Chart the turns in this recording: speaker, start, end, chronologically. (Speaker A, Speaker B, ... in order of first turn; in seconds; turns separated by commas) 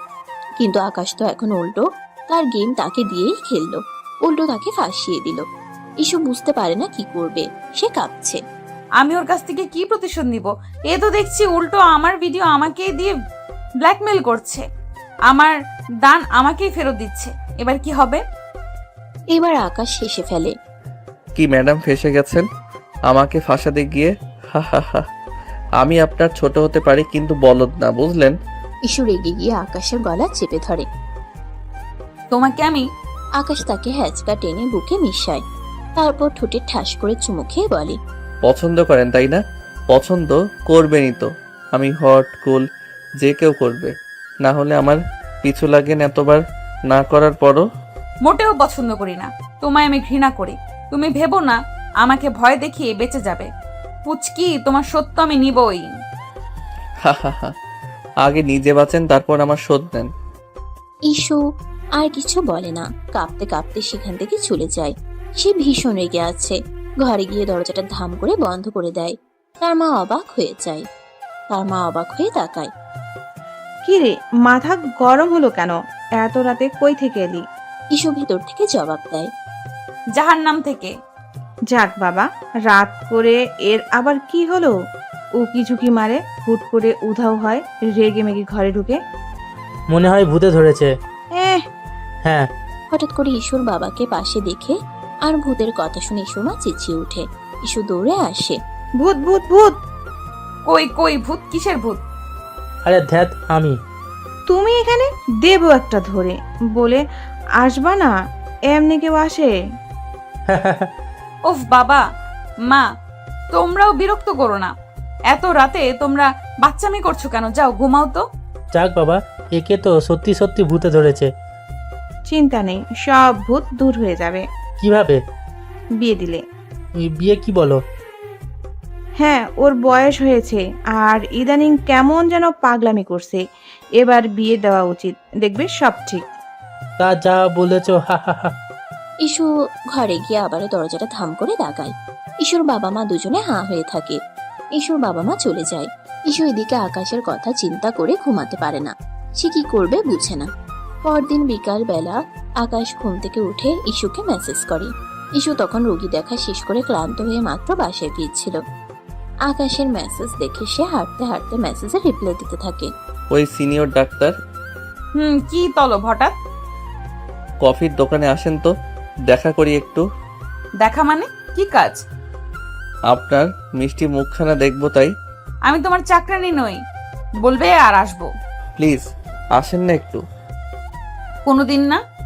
Speaker A: 0.6-5.5, Speaker A: 6.0-8.4, Speaker B: 9.0-13.1, Speaker B: 13.8-14.7, Speaker B: 15.3-18.2, Speaker A: 19.3-20.5, Speaker C: 21.4-22.5, Speaker C: 23.1-25.1, Speaker C: 25.8-28.4, Speaker A: 28.9-30.9, Speaker B: 32.3-32.9, Speaker A: 33.4-35.4, Speaker A: 36.0-38.0, Speaker C: 38.5-42.6, Speaker C: 43.2-47.6, Speaker B: 48.2-53.5, Speaker B: 54.1-55.9, Speaker C: 57.1-57.5, Speaker C: 58.2-60.1, Speaker A: 61.1-61.4, Speaker A: 62.0-70.8, Speaker A: 71.5-72.7, Speaker D: 73.8-77.5, Speaker A: 78.0-79.3, Speaker B: 80.2-80.9, Speaker D: 81.7-84.7, Speaker D: 85.4-89.0, Speaker E: 89.9-90.9, Speaker D: 91.3-91.7, Speaker E: 92.2-92.5, Speaker A: 92.9-98.6, Speaker D: 99.0-99.8, Speaker B: 100.7-102.0, Speaker E: 102.8-103.8, Speaker D: 104.5-107.0, Speaker D: 107.6-108.1, Speaker D: 108.7-109.5, Speaker E: 110.5-110.9, Speaker B: 111.5-112.0, Speaker B: 113.5-114.7, Speaker B: 115.3-118.2, Speaker E: 118.7-121.3, Speaker D: 122.3-124.5, Speaker E: 124.8-125.2, Speaker D: 126.0-126.4, Speaker E: 127.0-127.8, Speaker D: 129.2-133.4, Speaker D: 134.0-136.2, Speaker E: 137.0-138.5, Speaker A: 139.2-144.2, Speaker A: 144.8-150.5, Speaker A: 151.1-158.6, Speaker A: 159.5-162.9, Speaker C: 163.3-164.3, Speaker B: 165.2-166.3, Speaker C: 167.6-168.7, Speaker C: 169.3-170.0, Speaker B: 170.8-172.0, Speaker C: 173.1-175.1, Speaker B: 175.7-176.8, Speaker B: 177.4-178.3, Speaker C: 178.8-180.2, Speaker B: 181.5-182.0